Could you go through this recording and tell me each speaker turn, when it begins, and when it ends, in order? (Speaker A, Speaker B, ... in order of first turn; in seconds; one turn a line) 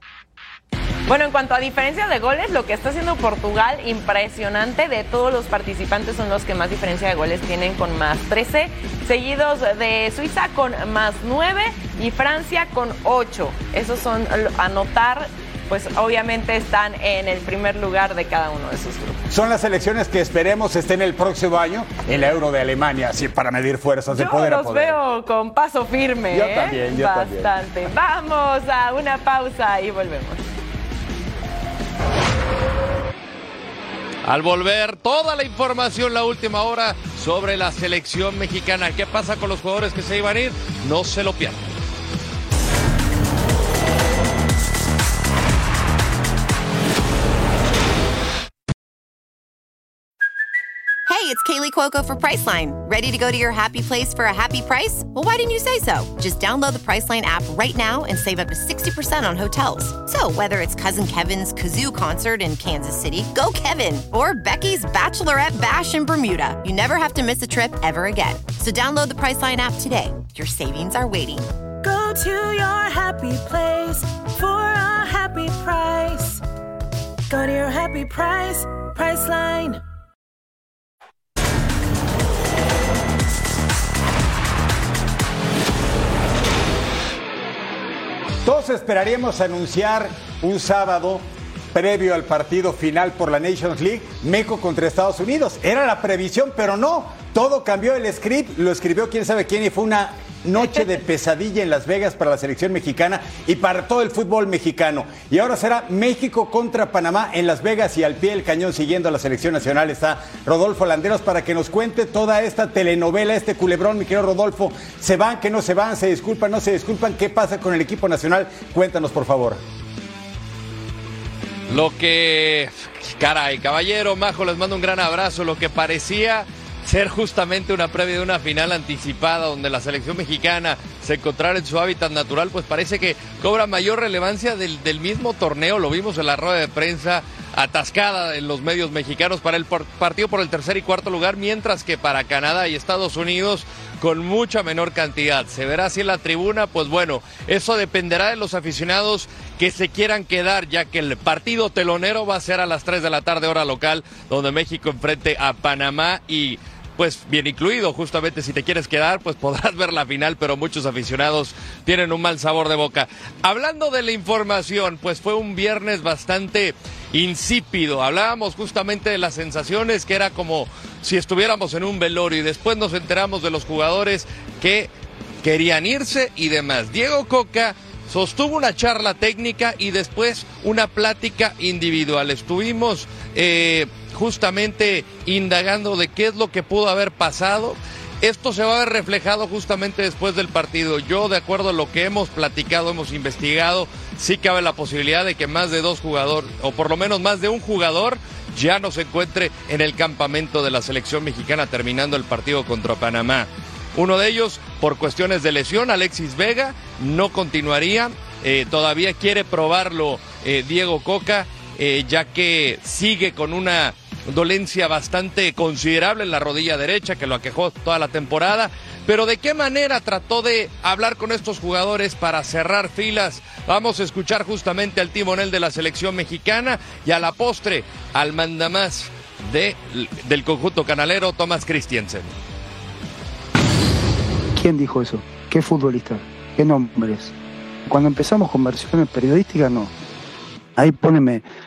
Speaker A: 1.1-19.2
Speaker B: 19.3-25.0
Speaker A: 24.1-30.4
Speaker B: 26.3-27.5
Speaker C: 34.2-41.7
Speaker D: 51.1-71.5
Speaker E: 71.8-76.4
Speaker E: 77.3-79.8
Speaker B: 88.4-119.6
Speaker C: 121.7-174.9
Speaker C: 175.4-232.3
Speaker F: 234.5-237.3
Speaker F: 237.8-239.9
Speaker F: 240.8-241.4